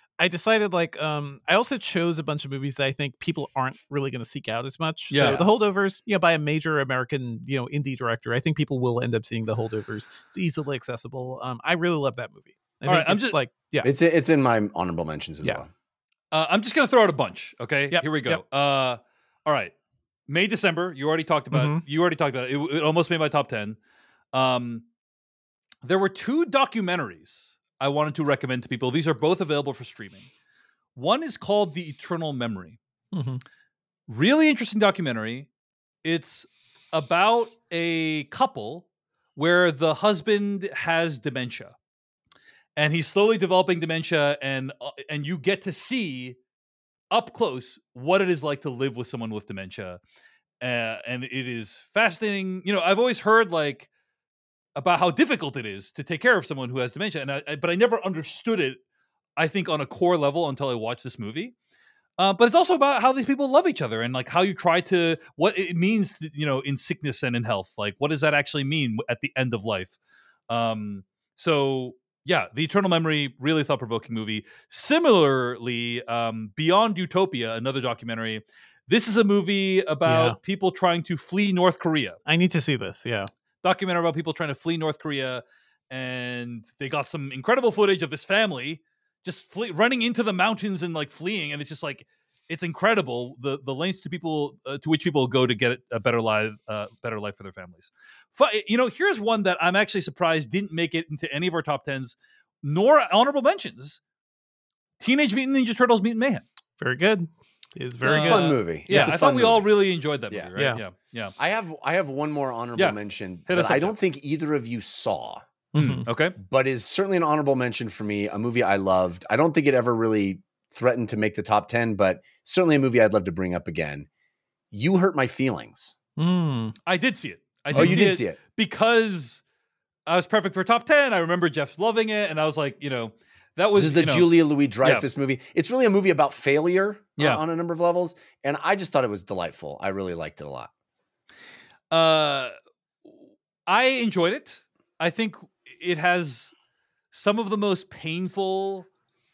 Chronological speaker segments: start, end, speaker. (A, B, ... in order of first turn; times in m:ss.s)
0:00.2-0:13.9 A
0:05.1-0:05.4 B
0:12.8-0:13.4 B
0:13.8-0:15.7 C
0:16.3-0:19.7 B
0:17.9-0:18.4 A
0:20.3-0:23.8 B
0:21.5-0:21.8 A
0:24.3-0:24.8 B
0:25.8-0:30.3 B
0:30.9-0:32.8 B
0:33.1-0:33.4 A
0:34.1-0:35.5 B
0:36.0-0:41.8 B
0:42.8-0:46.4 B
0:47.1-0:50.0 B
0:50.6-0:53.9 B
0:54.8-0:58.8 B
0:59.4-1:01.5 B
1:02.2-1:10.0 B
1:10.5-1:22.2 B
1:20.0-1:20.4 A
1:22.2-1:23.3 A
1:23.6-1:44.0 B
1:45.0-1:46.4 B
1:46.8-1:49.2 A
1:48.0-1:49.7 C
1:48.0-1:51.3 B
1:51.4-1:55.4 C
1:52.8-1:54.0 B
1:55.7-1:56.0 A
1:55.8-1:56.3 B
1:56.4-2:04.1 C
2:04.7-2:05.9 C
2:06.2-2:06.7 A
2:06.8-2:09.4 B
2:07.7-2:08.0 A
2:07.7-2:08.4 C
2:10.1-2:14.3 B
2:13.7-2:20.7 C
2:21.9-2:22.5 B
2:23.7-2:26.5 B
2:27.1-2:28.9 B